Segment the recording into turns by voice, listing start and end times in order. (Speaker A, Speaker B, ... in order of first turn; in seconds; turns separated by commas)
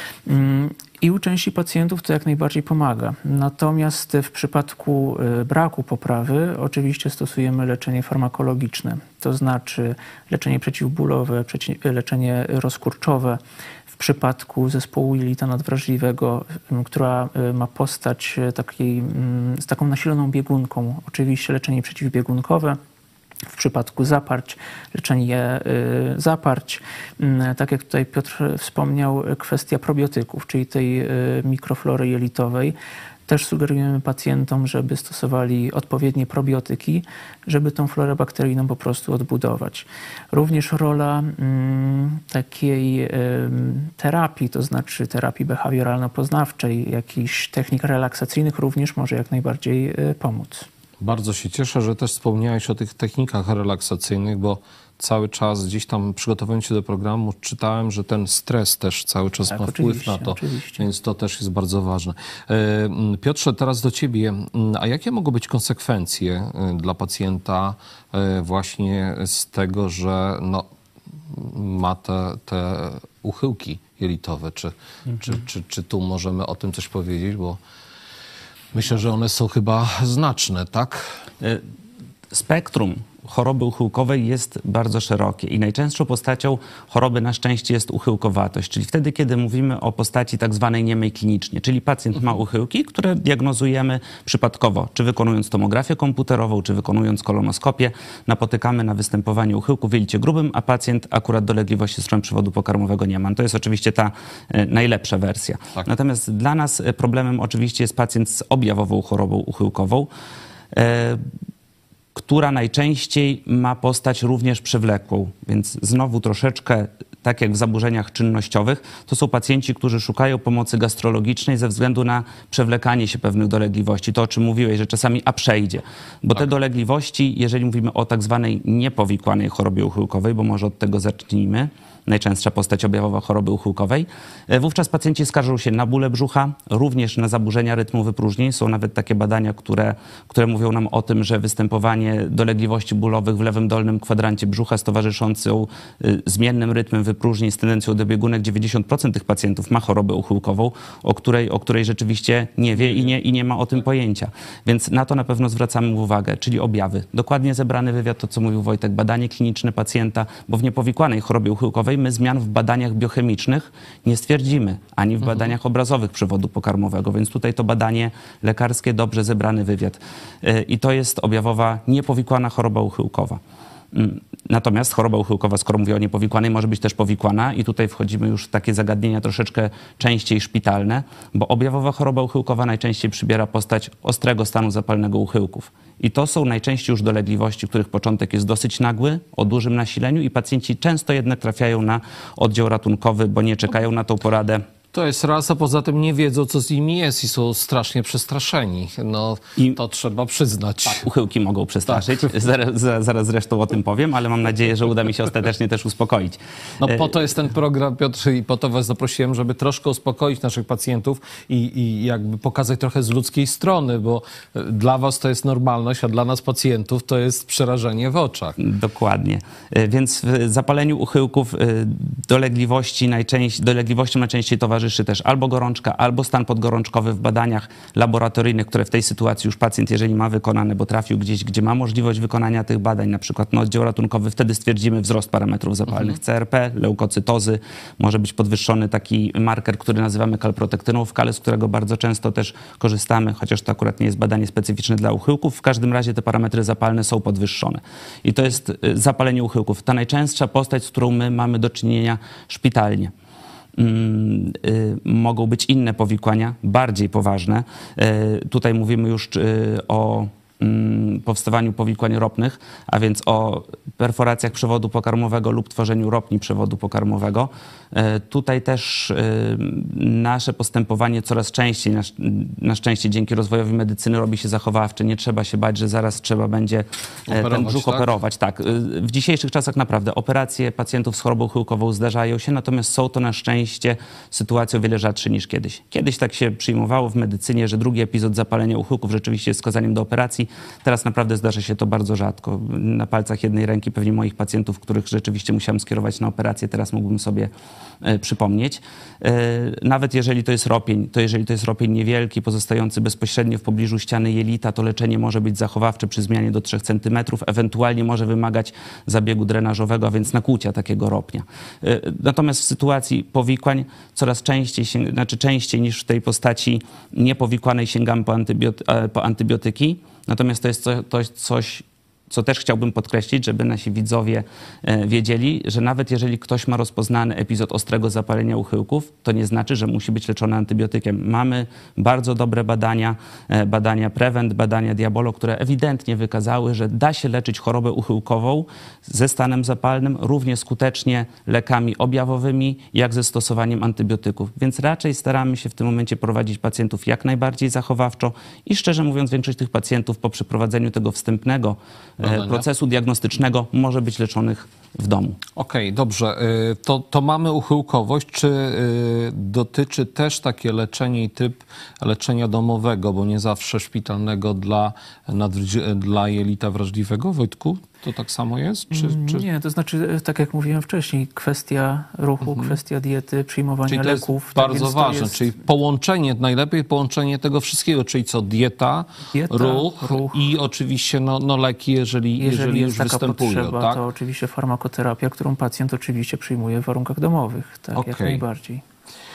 Speaker A: 0.3-22.8, Speaker A: 23.5-32.8, Speaker A: 33.3-50.7, Speaker B: 51.0-70.7, Speaker A: 59.5-60.9, Speaker B: 71.3-77.6, Speaker B: 78.7-81.2, Speaker C: 82.3-110.1, Speaker C: 110.7-111.2, Speaker C: 112.2-173.4, Speaker C: 173.9-194.7, Speaker B: 194.9-201.1, Speaker C: 201.0-206.9, Speaker B: 201.9-202.3, Speaker B: 206.8-218.6, Speaker C: 218.6-253.1, Speaker C: 253.8-297.5, Speaker B: 277.3-278.1, Speaker C: 298.0-355.4, Speaker B: 352.2-352.6, Speaker B: 355.6-369.5, Speaker A: 368.9-375.6, Speaker B: 372.4-372.8, Speaker B: 373.9-384.0, Speaker A: 379.3-380.4, Speaker A: 382.4-388.8, Speaker B: 388.0-388.4